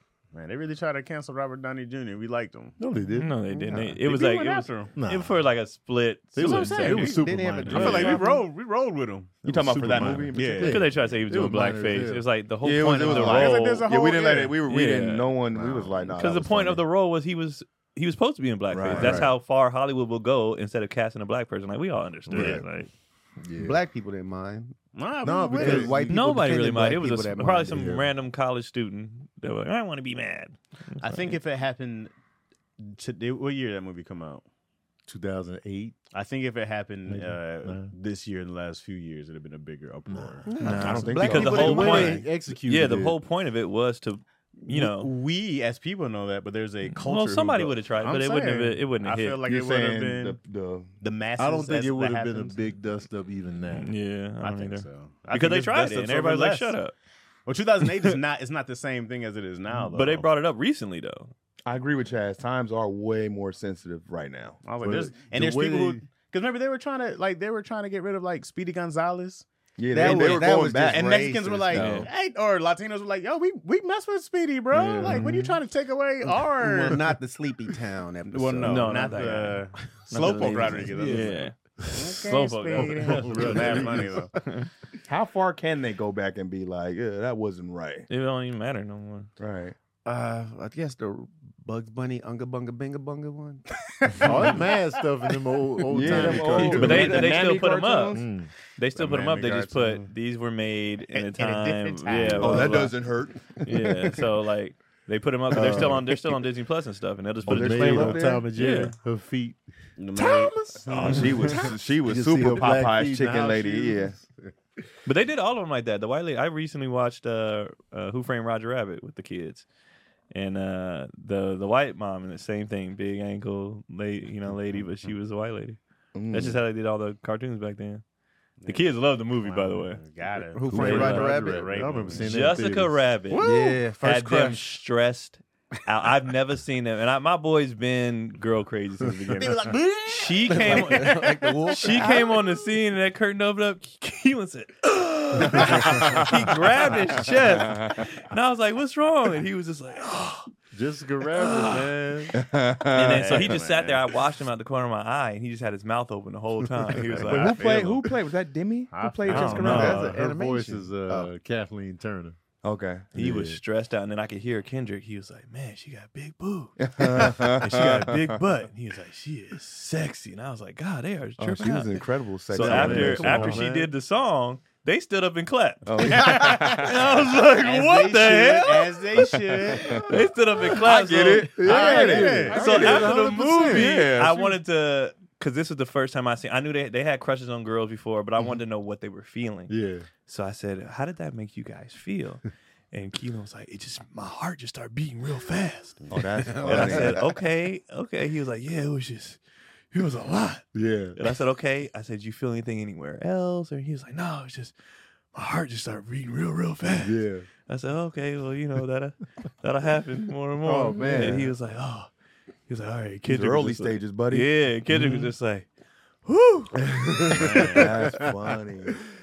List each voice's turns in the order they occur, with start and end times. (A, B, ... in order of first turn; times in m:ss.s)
0:00.3-0:02.8 A
0:02.8-0:03.3 B
0:03.2-0:08.1 C
0:04.0-0:05.0 A
0:05.0-0:05.4 B
0:06.4-0:08.3 B
0:06.4-0:07.1 A
0:06.8-0:08.4 D
0:07.7-0:10.8 A
0:09.4-0:12.3 B
0:09.4-0:10.8 E
0:10.6-0:13.9 C
0:12.6-0:16.8 E
0:13.1-0:14.6 A
0:14.6-0:15.3 C
0:15.6-0:16.0 B
0:16.2-0:22.9 C
0:18.7-0:19.3 E
0:18.9-0:19.4 B
0:22.3-0:22.7 B
0:23.4-0:23.8 B
0:23.6-0:24.8 D
0:25.0-0:26.1 A
0:25.2-0:26.2 B
0:25.4-0:27.8 D
0:26.1-0:31.4 C
0:27.7-0:28.1 B
0:31.0-0:32.1 A
0:32.8-0:34.4 A
0:35.1-0:36.0 B
0:36.1-0:40.6 A
0:37.1-0:37.9 B
0:40.1-0:43.2 B
0:40.5-0:41.7 D
0:40.6-0:42.2 E
0:40.6-0:45.1 C
0:44.6-0:50.4 A
0:46.8-0:49.4 C
0:49.4-0:51.0 E
0:51.0-0:52.6 A
0:51.4-0:53.9 B
0:53.7-0:56.9 C
0:54.4-0:56.8 A
0:57.5-1:00.3 A
0:59.8-1:01.3 C
1:01.7-1:04.6 E
1:04.6-1:09.5 A
1:04.8-1:06.0 B
1:09.8-1:12.1 E
1:09.9-1:11.8 D
1:10.0-1:17.1 A
1:11.7-1:12.1 C
1:14.7-1:15.6 B
1:16.5-1:19.2 D
1:18.3-1:24.4 A
1:18.6-1:24.7 C
1:20.3-1:21.3 D
1:22.7-1:24.2 B
1:25.1-1:28.1 E
1:28.1-1:29.3 C
1:29.4-1:29.8 E
1:30.1-1:34.3 D
1:33.9-1:34.7 A
1:34.2-1:37.5 B
1:35.9-1:38.3 E
1:36.1-1:38.2 C
1:38.1-1:38.5 B
1:38.8-1:43.0 C
1:39.0-1:39.7 A
1:41.1-1:42.8 A
1:42.3-1:43.5 E
1:43.5-1:48.9 C
1:45.5-1:46.4 B
1:45.6-1:45.9 E
1:47.5-1:48.5 E
1:47.5-1:49.6 B
1:50.0-1:50.6 A
1:50.1-1:54.3 B
1:50.9-1:54.2 E
1:55.0-1:59.7 C
2:00.3-2:05.8 C
2:06.2-2:06.6 E
2:06.3-2:08.0 C
2:08.6-2:12.5 A
2:08.7-2:10.0 C
2:10.5-2:12.2 D
2:10.7-2:13.0 B
2:10.7-2:11.3 C
2:12.2-2:30.5 C
2:13.3-2:13.7 A
2:13.3-2:14.7 D
2:19.4-2:21.1 A
2:20.4-2:22.4 D
2:25.6-2:26.5 E
2:27.6-2:27.9 E
2:30.7-2:32.4 B
2:31.3-2:32.2 C
2:32.3-2:33.6 E
2:32.9-2:37.6 C
2:33.0-2:34.0 A
2:37.1-2:38.0 A
2:37.2-2:40.2 E
2:38.9-2:40.0 A
2:39.3-2:40.1 C
2:39.6-2:42.4 B
2:39.7-2:41.3 D
2:42.6-2:43.3 E
2:43.2-2:59.4 C
2:43.2-2:43.6 B
2:46.8-2:48.4 E
2:51.4-2:53.6 E
2:52.5-2:53.9 B
2:55.8-2:57.2 E
2:56.0-2:56.9 A
2:57.6-3:00.1 A
2:57.8-2:58.6 D
2:59.6-3:00.1 E
2:59.9-3:09.8 C
3:00.6-3:04.6 E
3:01.6-3:04.1 B
3:01.7-3:02.8 A
3:09.7-3:10.1 B
3:10.3-3:19.4 C
3:16.1-3:17.4 E
3:16.4-3:17.2 D
3:19.9-3:24.8 C
3:20.7-3:21.2 B
3:25.3-3:32.1 C
3:26.9-3:27.5 B
3:30.6-3:31.5 B
3:31.1-3:31.5 E
3:32.7-3:35.7 C
3:33.3-3:34.5 E
3:34.9-3:35.3 B
3:36.2-3:37.7 C
3:36.8-3:38.9 B
3:37.4-3:38.0 A
3:37.5-3:39.0 E